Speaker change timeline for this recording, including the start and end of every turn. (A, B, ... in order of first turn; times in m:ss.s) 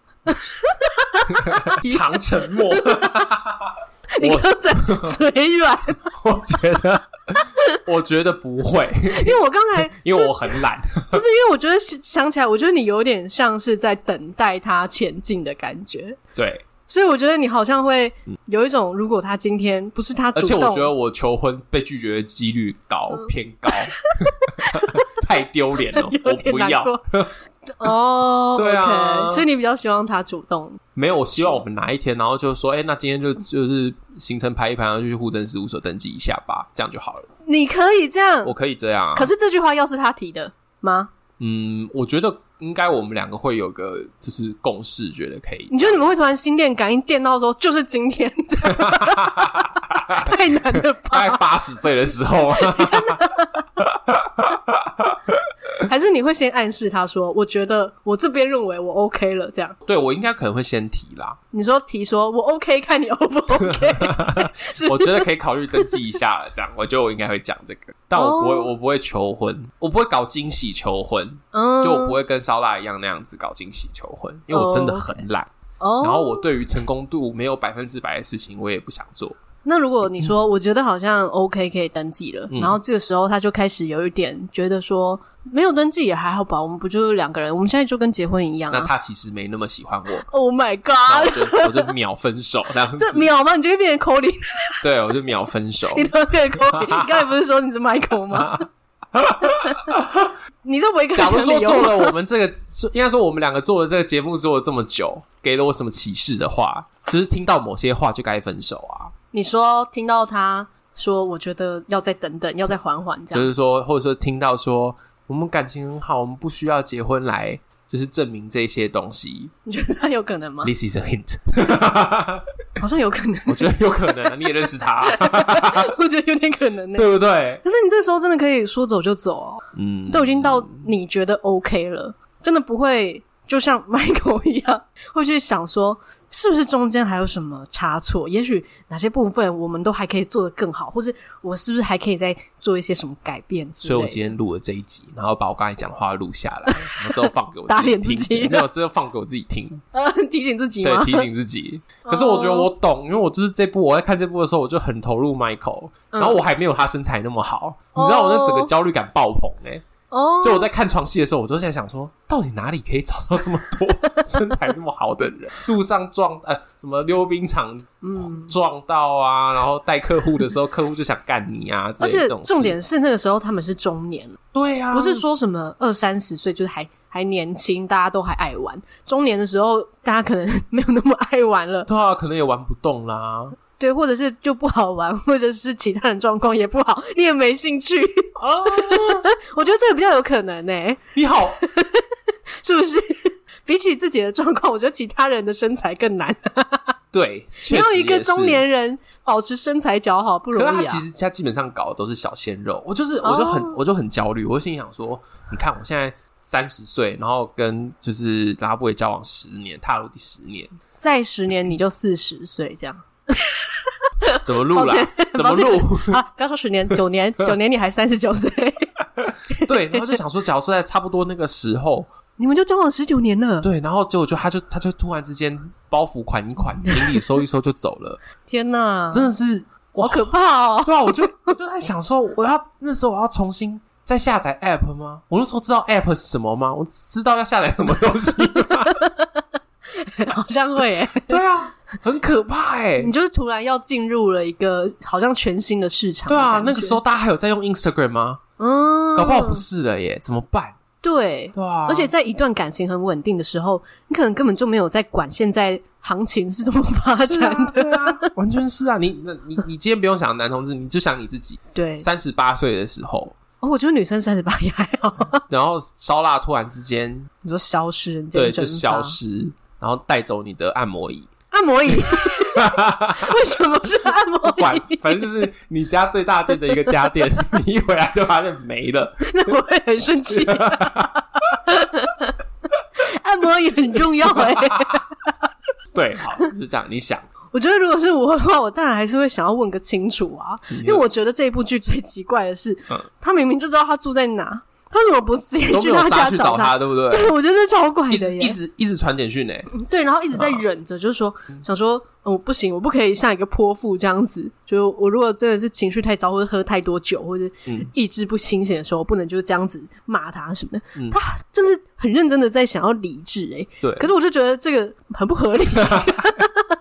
0:00.3-0:03.3 A
0:01.3-0:05.2 B
0:04.1-0:06.1 A
0:06.2-0:11.2 B
0:09.1-0:10.6 A
0:11.1-0:16.2 A
0:16.4-0:16.6 B
0:16.9-0:20.9 A
0:20.4-0:27.3 B
0:24.1-0:25.1 A
0:25.9-0:27.0 A
0:27.8-0:30.8 A
0:28.6-0:29.5 B
0:31.0-0:37.3 B
0:37.4-0:38.5 A
0:38.4-0:39.3 B
0:39.2-0:41.1 A
0:41.4-0:46.0 B
0:45.7-0:51.4 A
0:48.7-0:55.4 B
0:52.6-0:53.7 A
0:55.8-0:59.8 A
0:59.8-1:01.4 B
1:01.5-1:06.0 A
1:03.6-1:19.4 B
1:08.2-1:08.7 A
1:11.5-1:12.2 A
1:14.5-1:15.2 A
1:15.8-1:16.5 A
1:19.6-1:28.9 A
1:22.5-1:22.8 B
1:28.7-1:30.2 B
1:30.2-1:31.9 A
1:31.1-1:33.3 B
1:33.0-1:34.9 A
1:34.8-1:37.2 B
1:35.9-1:38.7 A
1:38.3-1:40.3 B
1:39.4-1:39.9 A
1:40.6-1:42.1 A
1:41.1-1:49.1 B
1:49.3-1:53.5 A
1:53.3-1:59.5 B
1:59.7-2:00.7 A
2:00.6-2:02.4 B
2:02.8-2:04.3 A
2:03.5-2:05.9 B
2:05.0-2:07.1 A
2:07.0-2:07.6 B
2:07.6-2:24.3 A
2:09.7-2:10.9 B
2:23.8-2:29.8 B
2:26.7-2:27.1 A
2:27.7-2:28.7 A
2:29.9-2:31.3 A
2:30.8-2:39.8 B
2:32.0-2:32.7 A
2:36.1-2:36.4 A
2:38.0-2:38.7 A
2:40.1-2:40.7 A
2:40.4-2:52.8 B
2:48.0-2:48.5 A
2:52.0-2:54.4 A
2:54.5-2:55.2 B
2:54.9-3:01.9 A
3:01.9-3:03.6 B
3:03.8-3:12.1 A
3:08.4-3:09.2 B
3:11.2-3:11.6 B
3:12.6-3:16.9 A
3:17.1-3:18.6 B
3:17.6-3:21.0 A
3:20.5-3:30.7 B
3:23.2-3:23.8 A
3:31.0-3:40.2 A
3:34.4-3:36.2 B
3:39.5-3:42.1 B
3:42.4-3:43.7 A
3:43.6-3:48.2 B
3:48.5-3:49.3 A
3:49.1-3:50.3 B
3:49.9-3:51.6 A
3:50.8-3:59.0 B
3:58.6-4:01.4 A
4:01.3-4:03.1 B
4:03.0-4:07.0 A
4:06.3-4:08.4 B
4:08.6-4:09.6 A
4:09.2-4:10.8 B
4:11.0-4:18.3 A
4:11.6-4:12.1 B
4:17.1-4:23.4 B
4:21.8-4:22.1 A
4:23.6-4:25.4 A
4:25.5-4:27.3 B
4:27.4-4:29.2 A
4:28.3-4:31.3 B
4:31.5-4:35.3 A
4:32.1-4:33.4 B
4:34.4-4:39.5 B
4:39.2-4:42.3 A
4:40.3-4:41.1 B
4:43.0-4:45.3 A
4:44.4-4:45.0 B
4:45.9-4:47.3 B
4:47.5-4:58.6 A
4:50.7-4:51.0 B
4:55.7-4:57.4 B
4:58.1-4:59.7 B
4:59.7-5:16.7 A
5:00.4-5:00.6 B
5:13.8-5:14.1 B
5:15.8-5:16.3 B